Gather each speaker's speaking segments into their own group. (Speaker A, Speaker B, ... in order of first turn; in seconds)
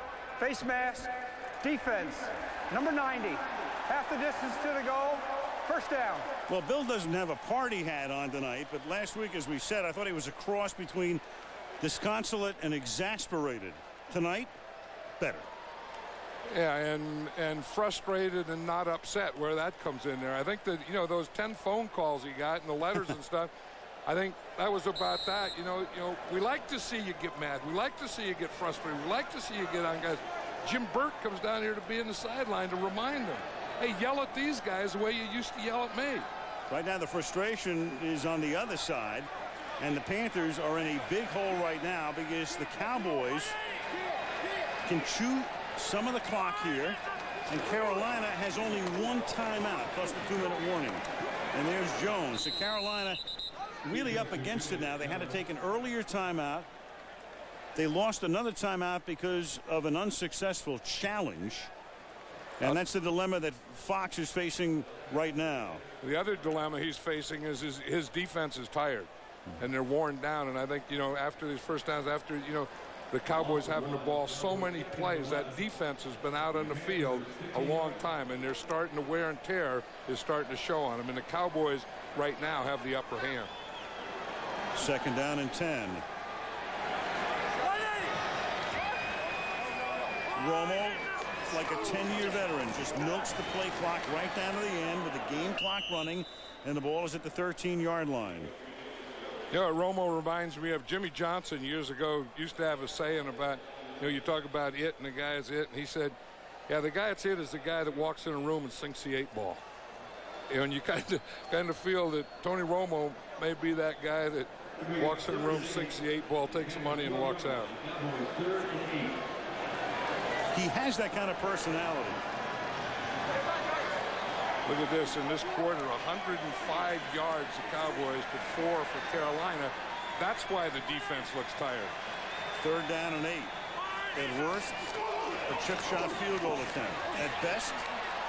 Speaker A: 0.4-6.3
Speaker B: 6.5-11.2, 11.8-14.5, 15.2-15.5, 36.7-43.5, 44.8-53.2, 53.8-56.7, 57.7-61.7, 62.6-65.8, 84.7-86.0, 90.3-98.5, 120.5-122.2, 132.6-133.5, 134.1-134.9, 135.4-137.8
Speaker C: 16.5-23.5, 24.1-36.3, 66.0-83.5, 99.5-106.2, 106.7-109.6, 110.5-117.8, 124.7-131.9